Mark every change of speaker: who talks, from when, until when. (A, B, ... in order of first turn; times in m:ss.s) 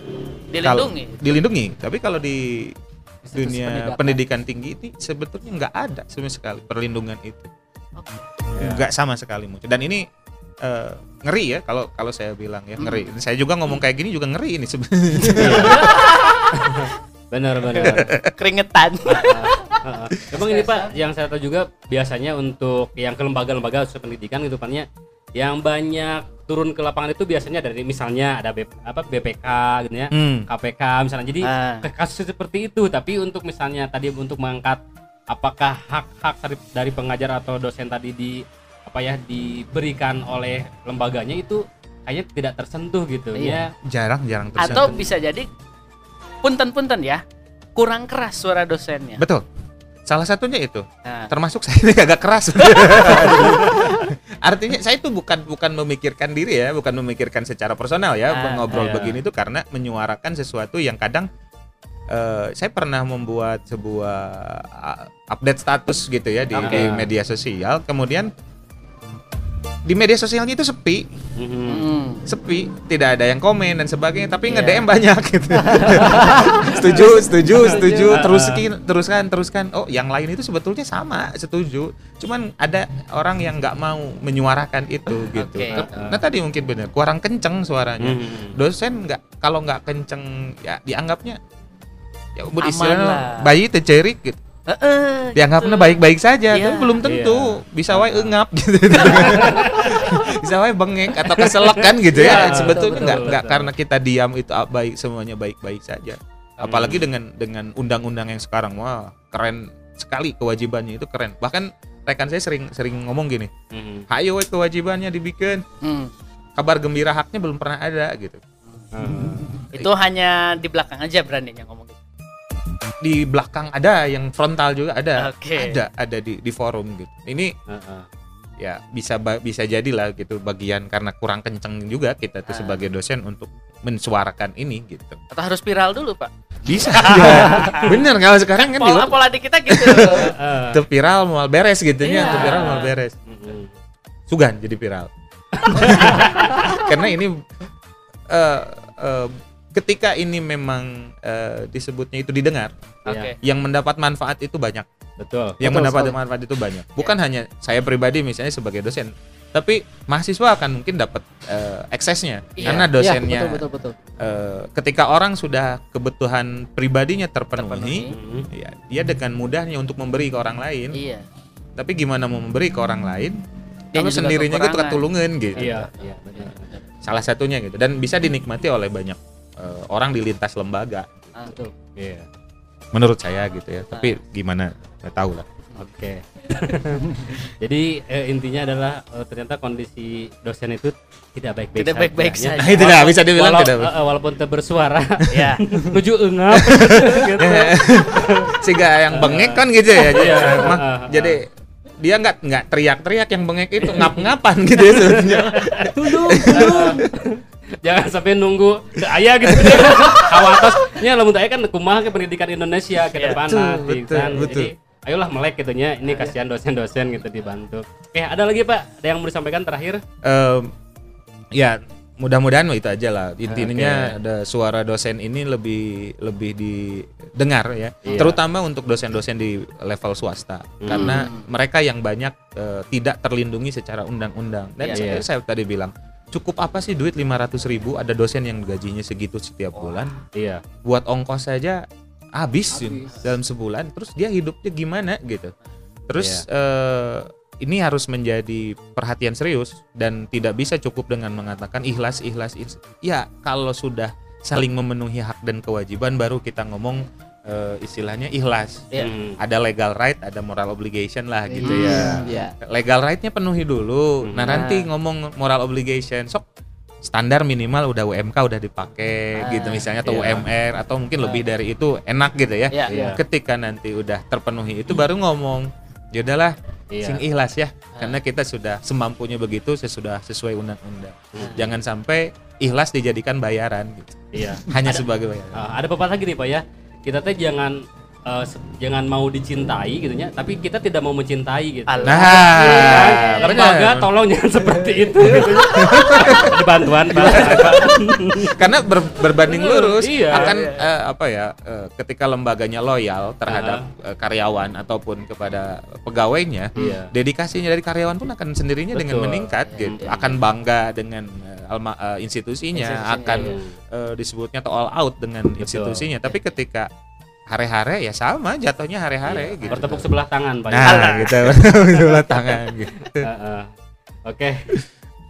0:00.5-0:01.2 A
0:00.6-0:02.7 B
0:03.2-0:04.2 C
0:03.3-0:07.5 B
0:08.0-0:08.3 A
0:08.6-0:08.8 D
0:08.6-0:10.0 B
0:10.6-0:16.2 B
0:12.8-0:13.1 A
0:15.2-0:16.0 D
0:15.6-0:16.8 A
0:16.5-0:18.1 D
0:17.7-0:19.8 A
0:17.8-0:18.3 B
0:19.1-0:24.8 D
0:20.3-0:20.9 A
0:25.4-0:43.7 D
0:30.1-0:30.5 B
0:31.4-0:31.8 A
0:43.3-0:43.6 A
0:43.8-0:44.9 B
0:44.6-0:45.5 A
0:44.6-0:45.0 D
0:46.4-0:47.2 A
0:47.8-0:49.2 A
0:49.2-0:49.4 B
0:50.0-1:01.3 B
0:51.0-0:51.3 A
0:53.0-0:53.4 A
0:53.4-0:53.9 D
0:58.3-0:58.8 A
0:58.7-0:59.2 D
1:02.1-1:08.3 B
1:06.5-1:06.9 A
1:06.6-1:07.1 D
1:09.8-1:11.1 B
1:11.4-1:11.9 D
1:11.6-1:12.2 A
1:12.2-1:31.4 B
1:14.5-1:14.8 A
1:15.6-1:16.6 C
1:16.0-1:18.6 D
1:25.3-1:25.8 A
1:25.7-1:26.2 D
1:28.0-1:28.6 D
1:32.4-1:34.4 B
1:32.6-1:33.5 A
1:34.7-1:36.0 A
1:35.4-1:53.5 B
1:36.5-1:37.0 A
1:37.0-1:38.4 D
1:38.9-1:40.2 D
1:41.2-1:43.7 D
1:42.1-1:42.8 A
1:42.7-1:43.4 C
1:46.6-1:47.0 D
1:53.7-1:54.0 D
1:54.1-1:55.6 B
1:55.8-1:56.1 A
1:56.6-1:58.4 B
1:58.9-1:59.5 D
1:59.2-1:59.6 C
1:59.7-2:02.0 A
2:03.0-2:07.5 B
2:05.2-2:05.8 A
2:07.7-2:08.0 D
2:08.6-2:15.2 B
2:12.5-2:12.8 A
2:15.3-2:18.0 A
2:16.6-2:23.1 B
2:18.6-2:20.4 A
2:20.0-2:20.8 D
2:22.0-2:23.0 A
2:22.2-2:23.7 D
2:24.3-2:25.1 B
2:25.6-2:26.8 D
2:25.7-2:27.4 B
2:28.3-2:32.7 B
2:33.0-2:33.3 A
2:33.4-2:34.9 B
2:35.2-2:35.6 D
2:35.6-2:43.6 B
2:35.6-2:36.2 C
2:42.6-2:42.9 A
2:43.0-2:44.0 C
2:44.2-2:51.0 B
2:47.6-2:48.2 A
2:48.1-2:48.5 D
2:50.9-2:51.2 A
2:51.8-2:53.4 B
2:53.9-2:55.0 A
2:53.9-2:55.8 B
2:55.5-2:56.7 D
2:55.6-2:55.9 A
2:57.0-3:01.1 B
3:01.3-3:01.7 A
3:02.0-3:02.2 D
3:02.9-3:05.4 B
3:03.9-3:04.2 A
3:05.8-3:21.4 D
3:07.0-3:07.2 C
3:11.8-3:13.2 A
3:12.6-3:13.9 B
3:15.3-3:15.6 A
3:16.5-3:21.5 B
3:22.0-3:27.1 B
3:23.8-3:24.2 D
3:24.9-3:40.0 D
3:25.9-3:27.0 C
3:29.4-3:30.9 B
3:33.1-3:33.4 A
3:33.3-3:34.7 B
3:40.2-3:40.7 B
3:41.5-4:00.2 B
3:43.5-3:44.2 D
3:48.0-3:48.4 D
3:50.8-3:51.2 D
3:50.9-3:51.4 A
3:54.8-3:55.0 A
3:54.9-3:55.2 D
3:59.7-4:00.1 A
4:00.3-4:00.6 D
4:00.8-4:05.5 B
4:02.7-4:03.2 C
4:06.1-4:26.4 B
4:06.2-4:06.4 D
4:19.0-4:19.4 D
4:21.5-4:22.5 C
4:21.6-4:22.3 A
4:24.2-4:24.7 D
4:24.5-4:24.8 A
4:27.0-4:45.6 B
4:29.4-4:29.9 A
4:30.0-4:30.5 D
4:32.9-4:33.2 D
4:32.9-4:33.2 C
4:36.9-4:37.2 D
4:41.3-4:41.7 D
4:41.4-4:41.6 A
4:44.3-4:44.7 D
4:45.5-4:47.8 D
4:48.3-4:58.6 D
4:51.9-4:53.5 A
4:52.0-4:54.1 B
4:55.2-5:16.9 B
4:59.4-5:00.5 D
5:00.3-5:00.8 A
5:03.5-5:03.8 D
5:06.8-5:07.1 D
5:08.9-5:10.4 D
5:09.6-5:10.1 A
5:12.7-5:13.5 A
5:13.3-5:13.8 D
5:15.6-5:16.0 D
5:17.5-5:20.1 B
5:19.3-5:21.6 D
5:20.7-5:23.3 B
5:20.8-5:21.6 A
5:23.1-5:23.7 D
5:24.2-5:24.7 D